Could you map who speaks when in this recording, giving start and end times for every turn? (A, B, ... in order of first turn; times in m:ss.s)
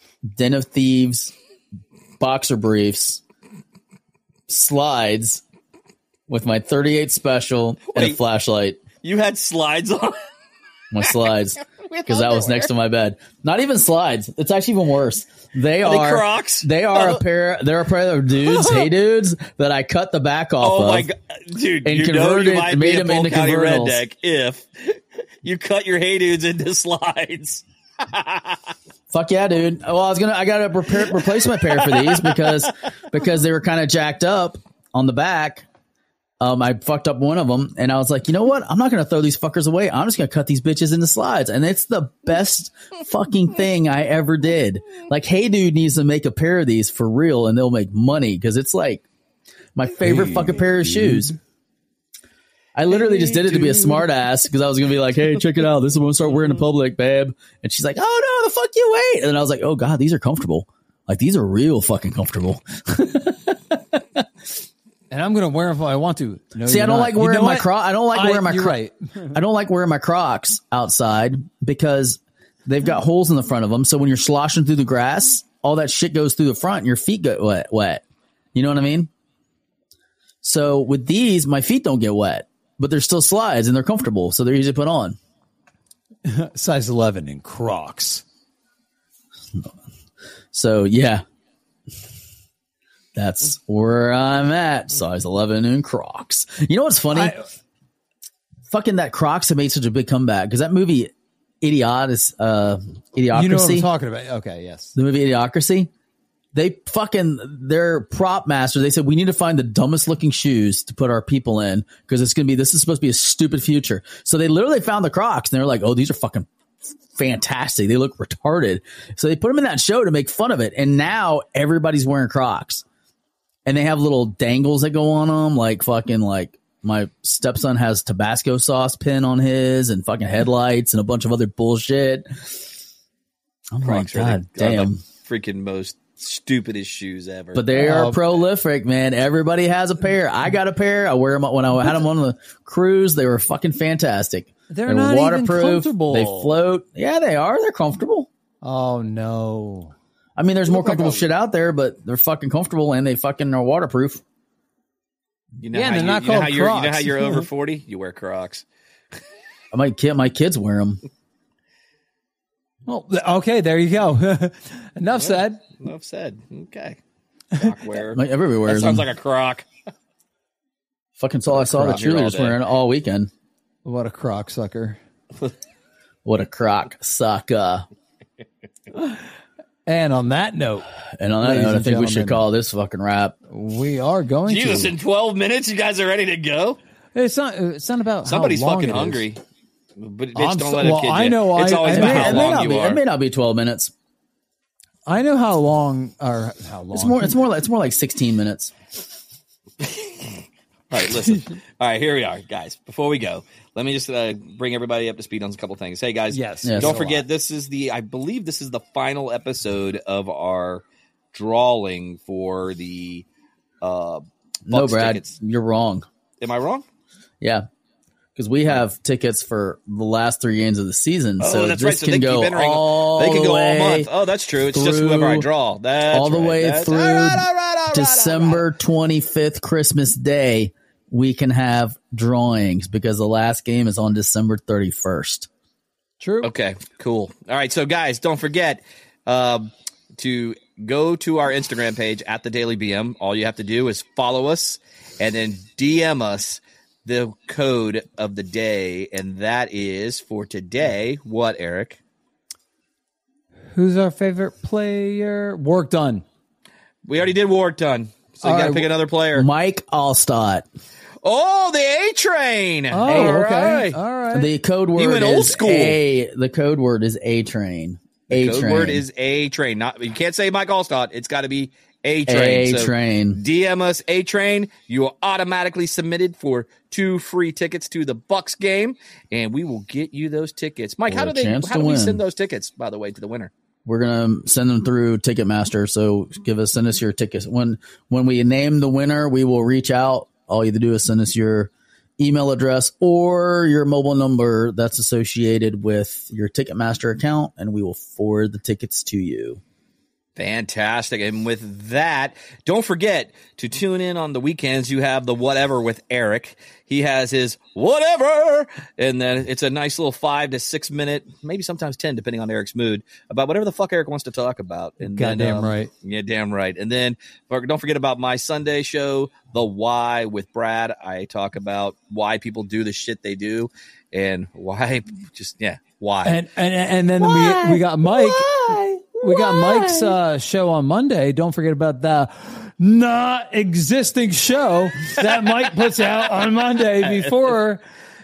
0:00.4-0:01.3 A
0:02.2-0:03.2 A
0:04.5-0:05.4 A
0:06.3-0:08.8 A
0:07.9-0:08.2 B
0:09.0-0:10.2 B
0:10.9-0:21.1 A
0:11.8-0:12.7 B
0:15.8-0:17.2 B
0:18.4-0:18.9 B
0:20.6-0:28.7 B
0:21.8-0:24.0 A
0:29.1-0:35.7 A
0:31.1-0:32.6 B
0:36.4-0:49.0 A
0:49.8-0:51.3 A
0:50.0-0:51.4 C
0:52.8-1:03.6 A
0:52.9-0:54.1 B
1:05.1-1:09.4 C
1:06.6-1:08.8 A
1:09.3-1:18.0 A
1:18.6-1:19.1 A
1:20.4-1:25.2 A
1:26.3-1:28.2 C
1:30.5-1:31.2 A
1:33.2-1:37.4 A
1:37.1-1:37.5 C
1:38.7-1:41.1 A
1:41.6-1:43.9 A
1:43.3-1:45.0 C
1:45.0-1:45.9 A
1:46.5-1:56.5 A
1:57.2-2:02.8 A
2:03.7-2:12.3 A
2:13.7-2:15.0 A
2:13.8-2:17.7 B
2:17.5-2:28.3 A
2:17.7-2:18.2 C
2:24.7-2:26.6 C
2:28.6-2:29.9 C
2:30.4-2:34.2 A
2:30.7-2:31.3 B
2:35.6-2:38.6 B
2:35.7-2:37.5 C
2:39.7-2:41.0 A
2:42.9-2:45.6 C
2:45.2-2:47.0 B
2:47.6-2:49.7 B
2:47.9-2:49.1 A
2:51.2-2:53.3 A
2:51.5-2:52.6 B
2:53.8-2:55.0 C
2:56.2-2:57.9 A
2:59.9-3:00.9 C
3:01.2-3:03.4 A
3:01.4-3:02.5 C
3:03.5-3:05.0 C
3:04.5-3:06.8 B
3:07.1-3:09.2 C
3:08.2-3:09.4 B
3:10.0-3:13.0 B
3:10.4-3:12.6 C
3:11.9-3:13.9 A
3:15.1-3:17.4 C
3:16.9-3:18.7 A
3:19.8-3:33.2 B
3:26.3-3:27.2 C
3:26.6-3:27.1 A
3:33.8-3:35.3 B
3:34.7-3:36.0 A
3:36.4-3:36.8 B
3:38.4-3:44.1 A
3:41.4-3:48.7 B
3:44.7-3:45.5 A
3:46.1-3:55.5 A
3:56.2-3:56.5 C
3:56.4-4:12.0 B
4:13.7-4:16.2 C
4:17.1-4:19.5 B
4:18.4-4:20.6 A
4:21.2-4:24.0 B
4:22.9-4:24.5 C
4:23.1-4:23.4 A
4:24.3-4:29.0 A
4:25.0-4:26.0 B
4:28.3-4:43.5 B
4:32.3-4:33.4 A
4:41.1-4:42.2 A
4:43.9-4:59.6 A
5:00.4-5:26.4 B
5:15.0-5:15.9 C
5:26.2-5:37.8 C
5:27.2-5:30.1 A